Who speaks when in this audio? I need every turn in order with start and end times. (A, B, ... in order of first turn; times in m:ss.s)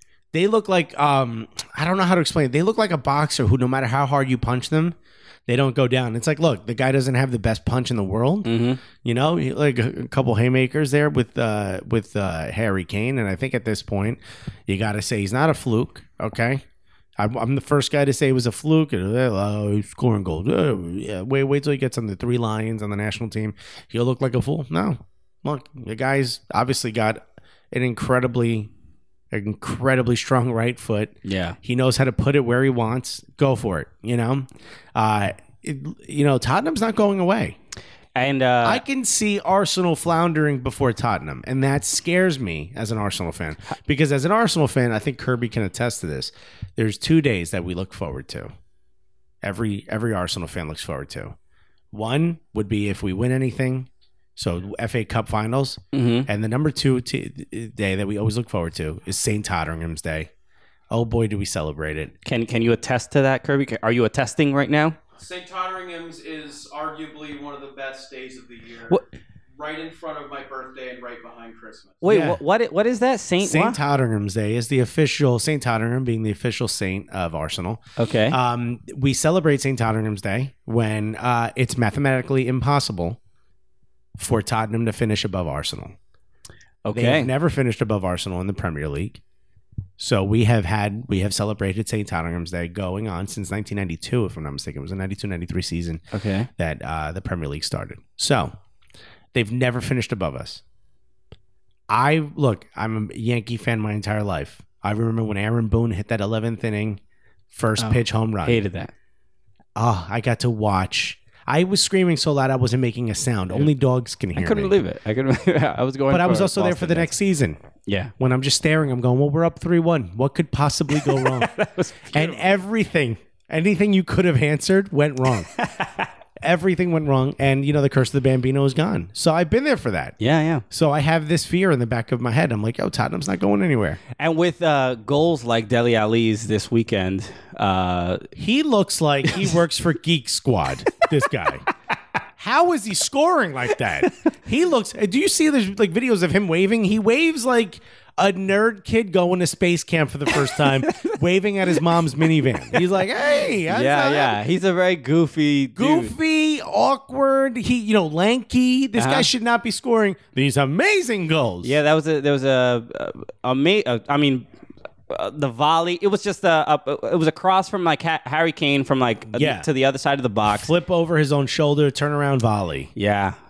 0:00.3-0:05.0 A
0:05.5-0:16.6 A
0:08.4-0:08.8 B
0:17.2-0:28.7 A
0:29.3-0:37.6 A
0:31.2-0:31.6 B
0:38.2-0:38.8 B
0:38.6-0:48.5 A
0:49.4-0:51.3 A
0:51.9-1:00.3 A
0:55.9-0:56.3 B
1:00.9-1:02.1 A
1:02.2-1:05.0 B
1:05.2-1:09.0 C
1:09.5-1:12.0 C
1:12.0-1:13.8 B
1:12.0-1:12.4 A
1:13.4-1:23.2 A
1:18.0-1:18.4 B
1:24.2-1:26.0 A
1:26.8-1:27.3 B
1:26.9-1:29.2 A
1:30.0-1:36.0 A
1:36.1-1:36.5 B
1:36.6-1:38.5 A
1:39.3-1:40.6 A
1:41.9-1:47.0 A
1:47.5-1:48.6 A
1:47.8-1:48.9 B
1:49.8-1:54.8 A
1:54.3-1:57.1 B
1:56.1-1:57.6 A
1:57.8-1:58.1 B
1:58.2-2:01.5 A
2:01.0-2:02.5 B
2:02.1-2:05.5 A
2:05.6-2:06.0 B
2:06.4-2:10.2 A
2:10.2-2:10.6 B
2:10.7-2:14.0 A
2:14.2-2:18.3 B
2:18.4-2:21.6 A
2:22.4-2:34.4 A
2:33.3-2:36.1 B
2:35.8-2:41.8 A
2:39.0-2:39.3 B
2:41.6-2:44.4 B
2:45.1-2:50.7 B
2:49.3-2:49.7 A
2:50.5-2:52.9 A
2:53.0-2:53.4 B